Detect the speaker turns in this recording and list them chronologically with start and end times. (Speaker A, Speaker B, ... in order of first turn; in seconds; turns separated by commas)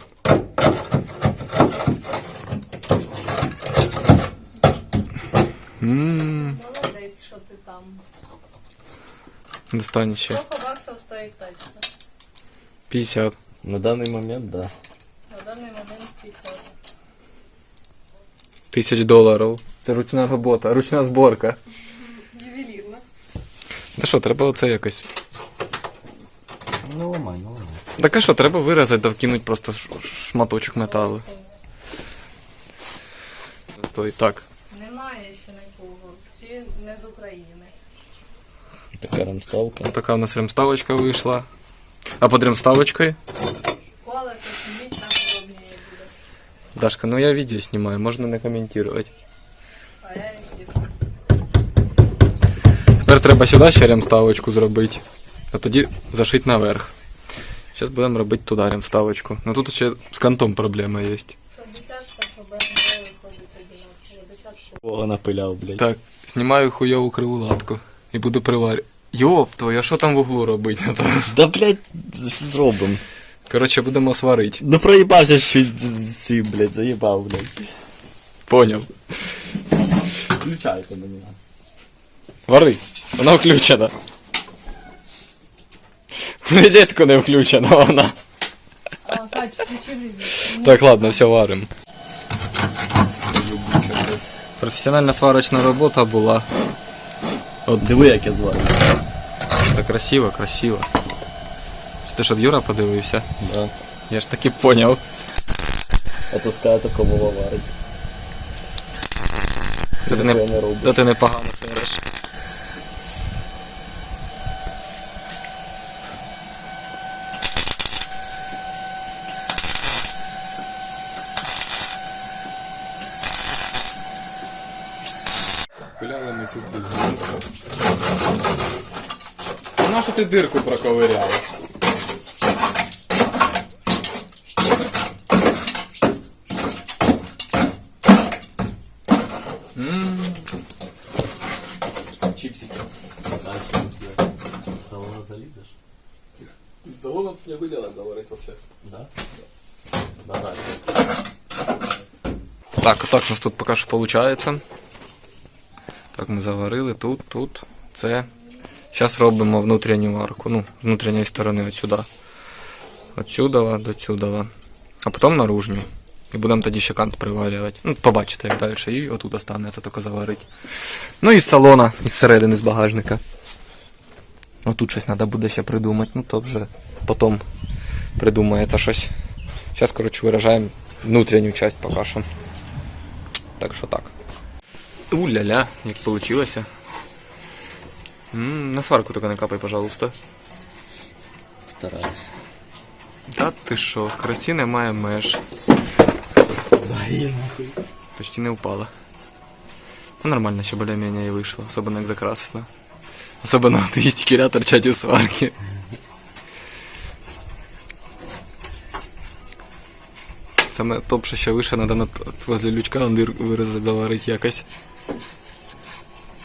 Speaker A: 5.8-6.6, Speaker B: 6.2-8.0, Speaker A: 9.7-10.4, Speaker B: 10.2-11.9, Speaker A: 12.9-13.3, Speaker C: 13.6-14.7, Speaker B: 15.3-16.7, Speaker A: 18.7-21.6, Speaker B: 22.0-23.0, Speaker A: 24.0-25.1, Speaker C: 26.8-27.8, Speaker A: 28.0-31.2, Speaker B: 30.8-31.6, Speaker A: 33.8-34.5, Speaker B: 34.7-37.7, Speaker C: 39.0-39.9, Speaker A: 39.9-41.5, Speaker A: 42.2-43.2, Speaker B: 44.0-46.1, Speaker A: 46.8-49.1, Speaker B: 50.0-50.8, Speaker A: 53.0-56.9, Speaker A: 57.7-61.3, Speaker B: 61.5-64.8, Speaker C: 64.8-65.8, Speaker A: 65.8-71.3, Speaker C: 71.3-73.0, Speaker A: 73.5-74.6, Speaker C: 74.6-77.7, Speaker A: 78.5-78.9, Speaker C: 80.3-81.4, Speaker A: 82.5-83.9, Speaker A: 86.4-88.2, Speaker B: 89.0-91.2, Speaker A: 90.4-91.7, Speaker C: 93.0-94.2, Speaker A: 94.6-96.5, Speaker A: 97.7-98.2, Speaker C: 97.8-99.0, Speaker A: 99.7-100.9, Speaker A: 102.0-103.3, Speaker C: 103.4-103.7, Speaker A: 104.1-105.0, Speaker C: 106.3-107.8, Speaker A: 110.0-112.0, Speaker C: 110.1-111.0, Speaker A: 126.0-127.4, Speaker A: 129.8-131.5, Speaker A: 139.7-140.5, Speaker A: 142.3-142.8, Speaker C: 143.4-144.2, Speaker C: 144.8-145.7, Speaker A: 146.4-148.6, Speaker C: 148.8-149.1, Speaker C: 150.2-150.8, Speaker A: 152.8-154.6, Speaker A: 156.1-158.3, Speaker A: 158.9-162.1, Speaker A: 163.1-164.5, Speaker A: 165.0-173.2, Speaker A: 174.6-177.4, Speaker A: 178.2-179.1, Speaker A: 179.7-182.3, Speaker A: 183.6-184.1, Speaker A: 185.1-186.7, Speaker A: 188.3-190.1, Speaker C: 191.7-192.3, Speaker A: 193.3-195.4, Speaker C: 196.7-197.8, Speaker A: 198.2-198.9, Speaker A: 200.2-202.7, Speaker A: 203.4-205.5, Speaker A: 210.7-214.7